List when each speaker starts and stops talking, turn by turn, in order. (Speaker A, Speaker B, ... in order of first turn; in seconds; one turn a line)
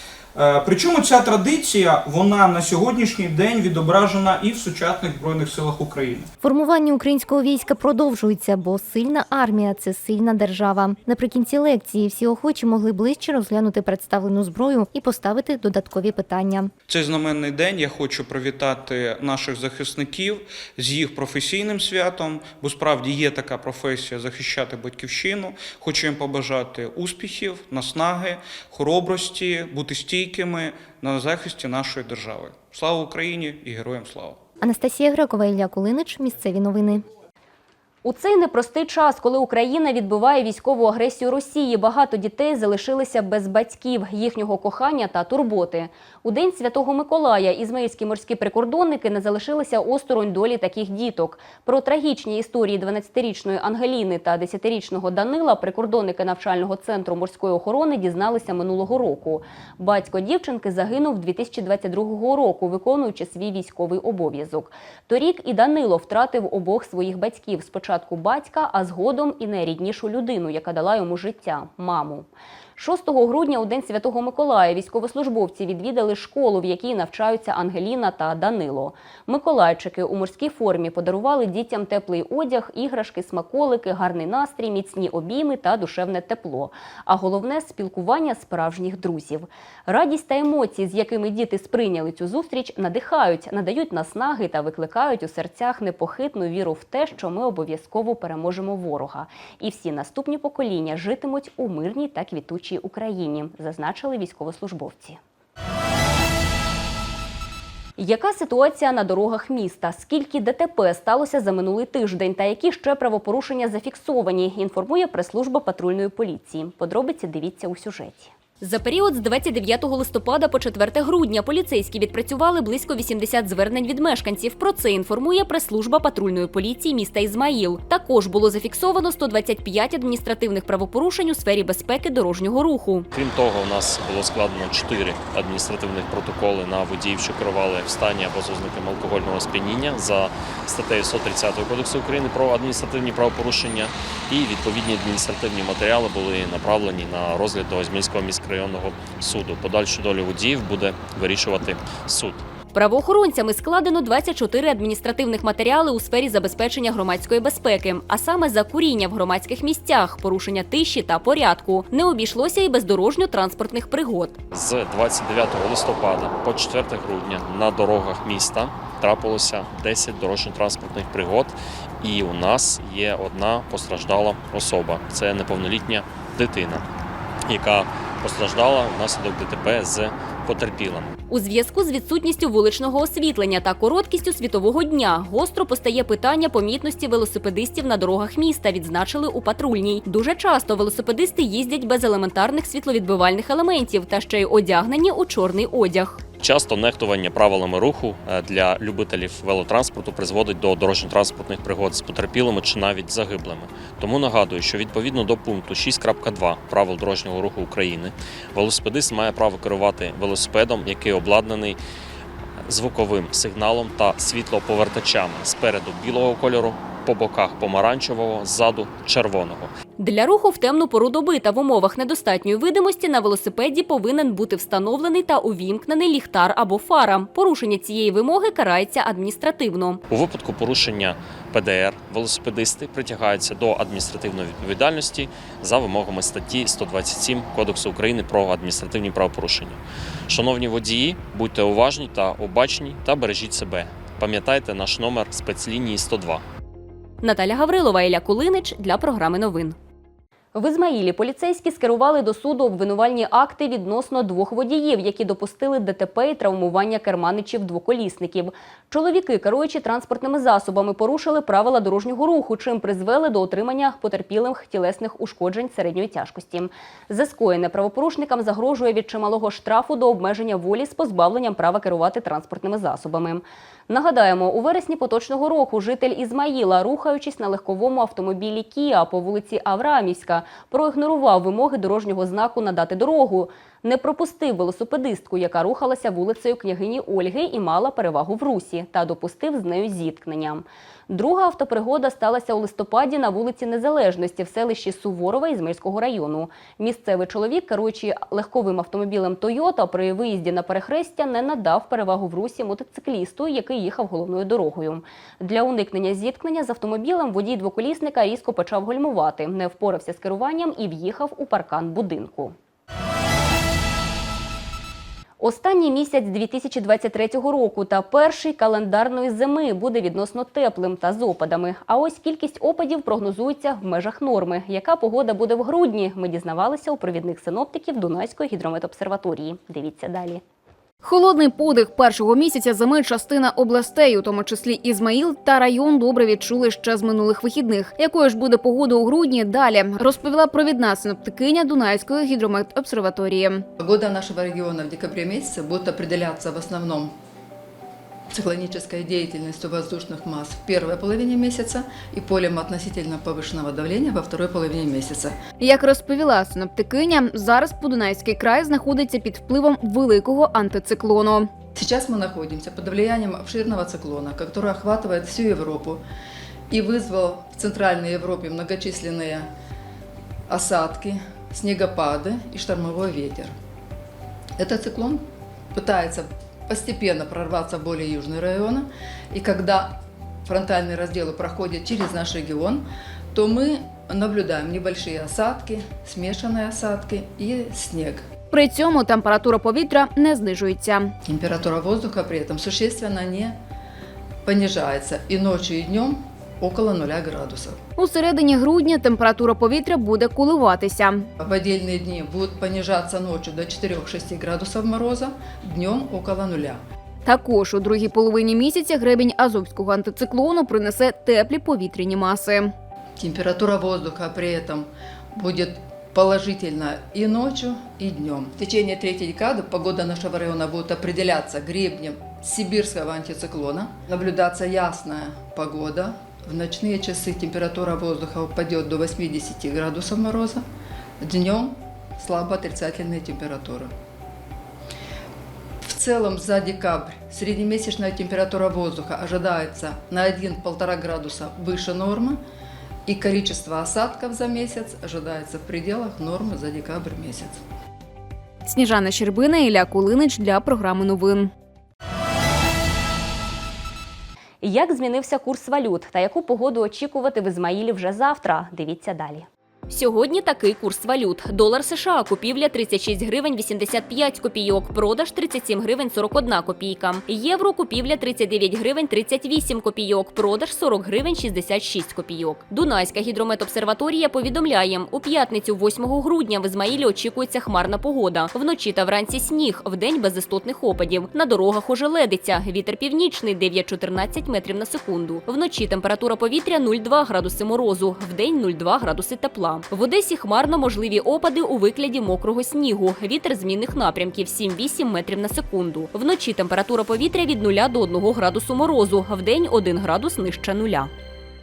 Speaker A: 0.3-6.3
Speaker B: 6.4-16.7
Speaker A: 16.9-34.4
Speaker B: 34.6-37.0
Speaker C: 38.0-105.2
Speaker C: 108.0-133.1
Speaker D: 133.1-152.4
Speaker C: 152.7-164.4
Speaker D: 164.5-176.8
Speaker D: 177.5-181.1
Speaker C: 181.3-196.2
Speaker D: 196.4-211.8
Speaker D: 212.7-219.7
Speaker C: 220.0-230.0
Speaker D: 230.1-246.4
Speaker C: 247.2-249.8
Speaker C: 250.5-312.6
Speaker C: 315.4-330.4
Speaker E: 331.0-343.6
Speaker F: 343.8-347.1
Speaker F: 348.3-355.4
Speaker E: 355.6-361.5
Speaker F: 361.8-366.0
Speaker F: 366.7-369.5
Speaker F: 370.5-373.5
Speaker F: 374.6-375.2
Speaker F: 375.7-388.2
Speaker E: 388.5-391.1
Speaker F: 391.2-393.6
Speaker F: 394.4-397.8
Speaker E: 398.0-401.3
Speaker F: 401.4-406.8
Speaker E: 407.2-412.7
Speaker F: 413.2-430.6
Speaker F: 431.2-433.9
Speaker F: 435.8-442.4
Speaker F: 443.1-447.6
Speaker E: 448.6-451.5
Speaker C: 454.6-501.1